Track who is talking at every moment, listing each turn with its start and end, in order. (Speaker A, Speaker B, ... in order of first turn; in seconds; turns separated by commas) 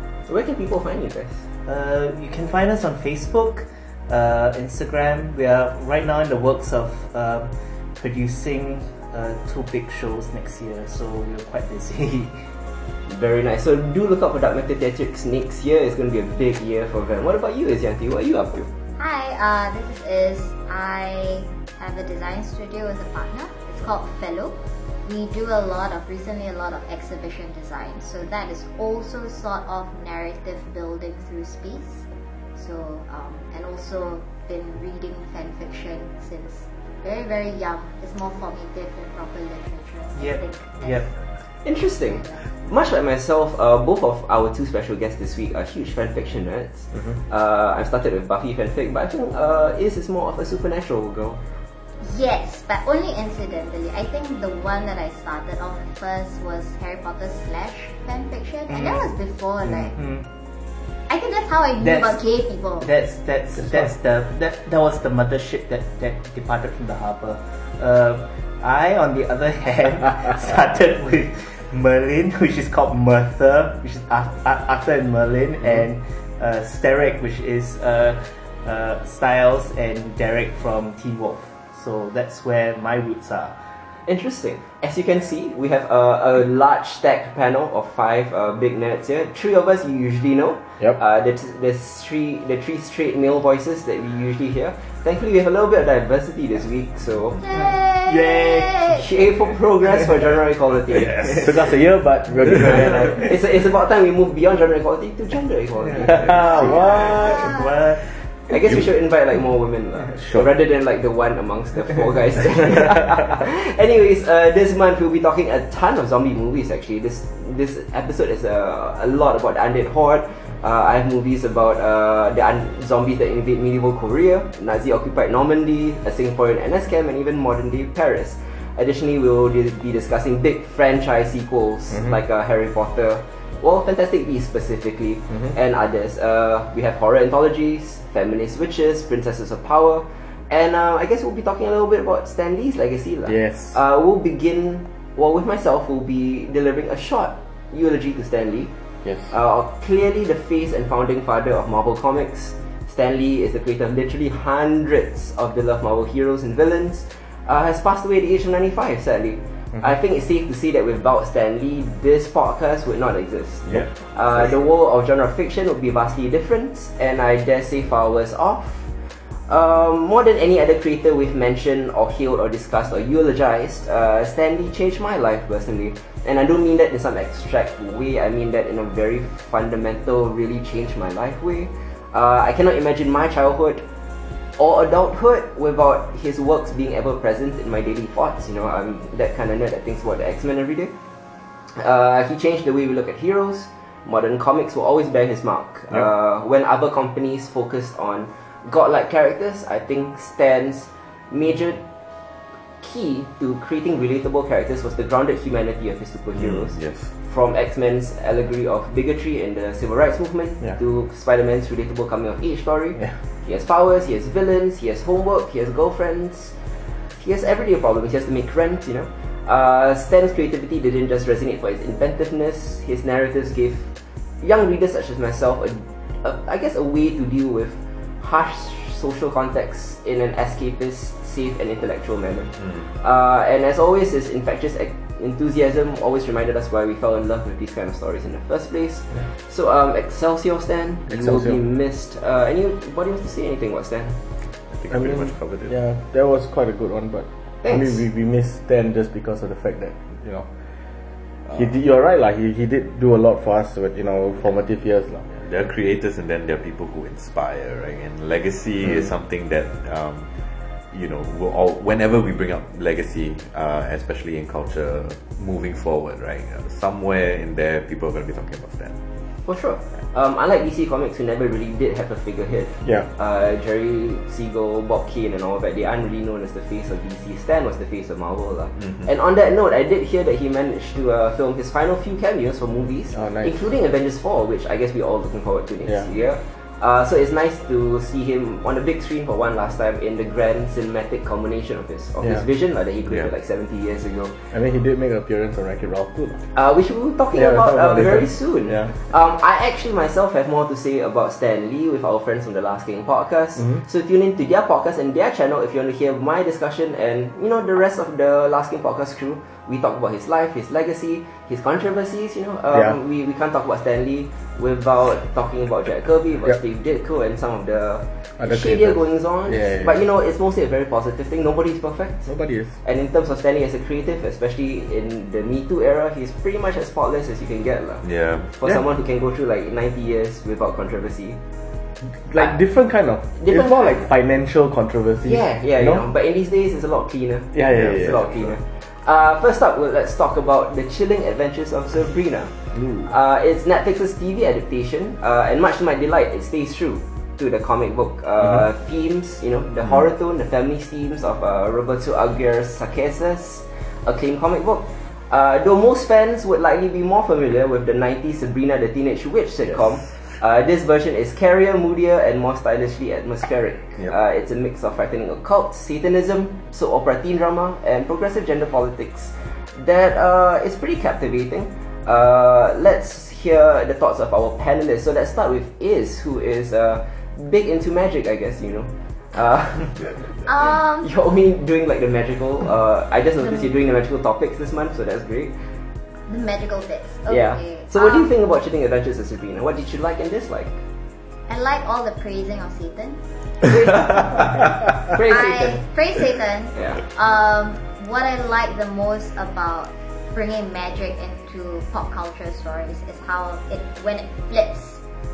Speaker A: 0.3-1.5, Speaker B: 1.7-12.4, Speaker A: 13.1-18.7, Speaker C: 19.0-41.1, Speaker B: 40.2-41.1, Speaker A: 41.6-51.4, Speaker C: 42.1-42.5, Speaker C: 52.0-60.0, Speaker B: 58.7-59.1, Speaker B: 59.6-60.3, Speaker C: 61.1-62.9, Speaker B: 61.8-62.2, Speaker B: 62.8-83.6, Speaker A: 84.1-97.4, Speaker C: 97.4-99.1, Speaker B: 97.5-98.9, Speaker A: 98.9-101.7, Speaker D: 100.9-101.7, Speaker E: 101.4-103.3, Speaker A: 103.2-106.3, Speaker E: 106.0-107.5, Speaker B: 106.0-108.1, Speaker C: 106.5-107.7, Speaker A: 108.5-148.7, Speaker E: 143.3-143.8, Speaker E: 149.1-149.3, Speaker A: 149.3-168.9, Speaker A: 169.5-183.8, Speaker A: 184.6-190.9, Speaker A: 191.7-201.8, Speaker A: 202.8-216.5, Speaker D: 206.4-207.1, Speaker A: 217.1-223.9, Speaker A: 224.4-244.2, Speaker E: 241.1-241.6, Speaker D: 244.7-245.8, Speaker E: 244.9-250.5, Speaker A: 247.6-248.0, Speaker E: 251.5-255.4, Speaker D: 255.4-260.3, Speaker D: 260.9-269.0, Speaker A: 269.4-294.4, Speaker E: 283.1-283.5, Speaker E: 294.5-296.4, Speaker A: 296.5-322.3, Speaker E: 297.3-298.9, Speaker E: 318.4-319.9, Speaker E: 322.3-322.8, Speaker A: 322.8-331.4, Speaker D: 328.0-328.5, Speaker E: 332.0-336.0, Speaker A: 333.4-334.1, Speaker A: 335.2-385.7, Speaker E: 337.5-338.4, Speaker D: 337.7-338.5, Speaker E: 342.7-343.1, Speaker C: 380.5-381.1, Speaker C: 386.3-388.3, Speaker A: 387.3-390.8, Speaker C: 391.5-394.5, Speaker A: 395.0-395.8, Speaker C: 395.1-405.0, Speaker A: 396.8-397.0